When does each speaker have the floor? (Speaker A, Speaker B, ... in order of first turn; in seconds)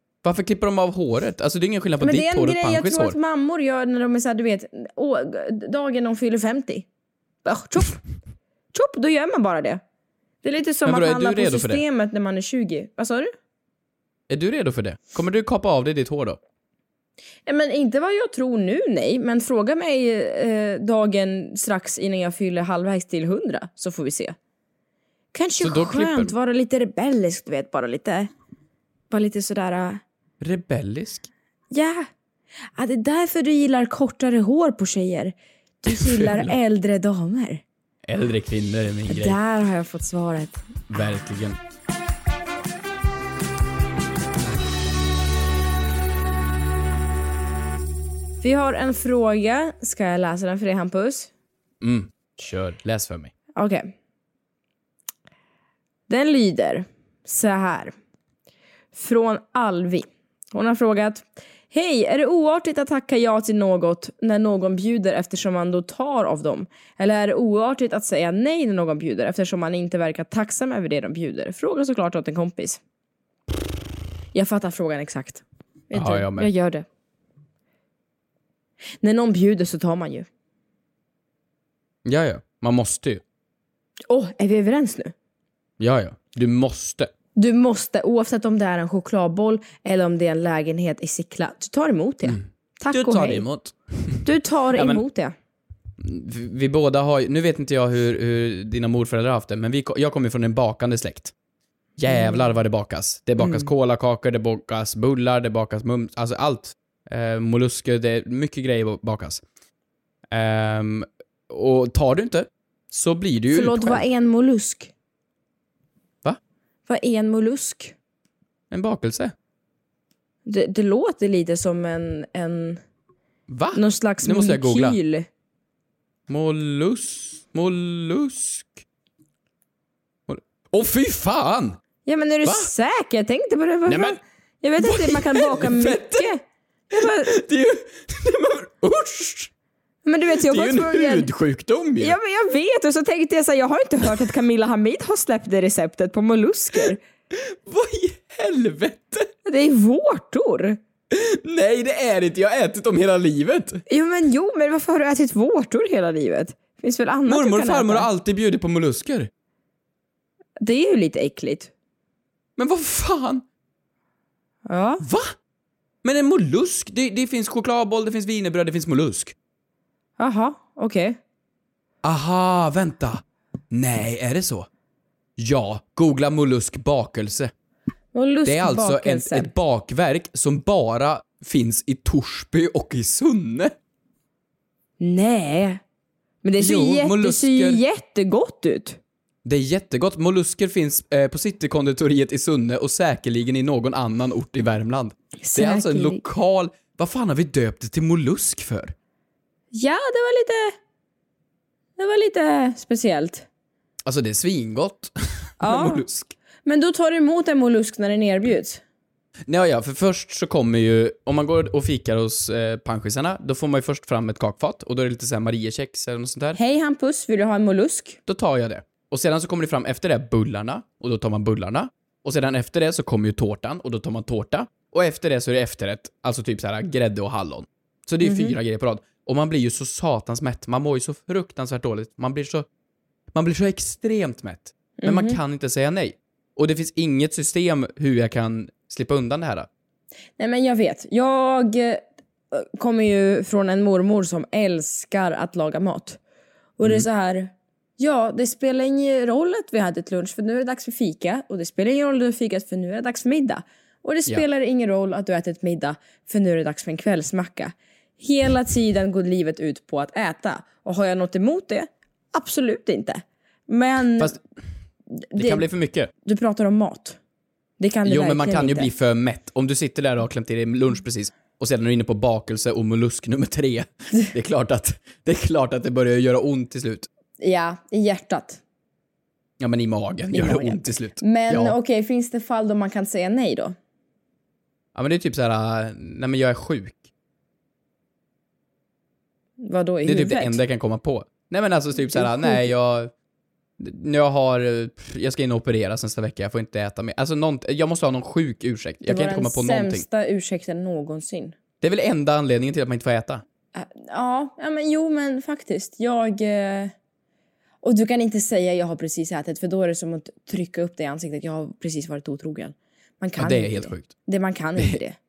Speaker A: 0.2-3.2, 10.8-11.8, 14.3-16.4, 25.6-26.3, 30.4-31.3, 35.9-36.5, 38.1-39.4, 40.9-41.6, 51.8-53.3, 75.9-76.5, 82.0-83.2, 85.8-87.1, 92.2-95.0, 96.0-101.3, 102.0-109.4, 110.3-114.0, 118.7-119.3, 123.5-125.0, 126.3-128.7, 130.3-131.8, 132.4-132.7, 133.9-134.2, 134.8-136.3, 137.0-139.5, 140.3-142.2, 147.3-149.3, 151.1-153.8, 157.3-159.3, 162.6-163.4, 165.0-165.3, 166.0-169.3, 172.0-174.7, 175.4-177.5, 178.5-183.7, 186.6-187.8, 189.4-198.9, 204.1-206.3, 209.5-216.6, 218.3-232.7, 233.3-239.7, 265.4-266.1, 268.1-277.1, 279.6-281.8, 284.9-287.0, 290.1-293.1, 293.8-300.1, 301.8-303.4, 313.4-314.1
Speaker B: 2.0-6.9, 7.4-8.0, 8.7-9.8, 10.4-13.3, 17.5-24.4, 25.3-28.3, 29.1-30.0, 31.7-32.1, 32.8-37.6, 39.1-40.6, 48.4-51.3, 53.6-53.9, 56.1-58.0, 58.9-72.8, 74.3-76.9, 79.0-80.3, 84.1-85.1, 87.4-93.5, 94.2-95.3, 102.1-102.5, 103.4-103.7, 113.5-114.9, 116.9-118.0, 120.5-122.8, 123.7-125.3, 132.1-136.4, 136.9-137.3, 140.1-141.3, 142.0-147.0, 149.4-150.8, 153.9-158.1, 160.6-161.7, 164.7-165.0, 170.2-171.2, 178.1-179.5, 185.0-185.8, 186.4-189.0, 195.4-196.2, 199.7-200.8, 202.0-203.5, 205.6-206.0, 206.7-208.8, 216.6-218.2, 228.2-228.6, 235.0-235.4, 240.4-246.2, 246.8-264.3, 265.3-265.7, 266.2-267.2, 267.8-268.9, 277.4-278.6, 280.3-283.8, 289.6-290.6, 292.1-292.7, 299.0-301.6, 303.7-306.9, 307.8-315.2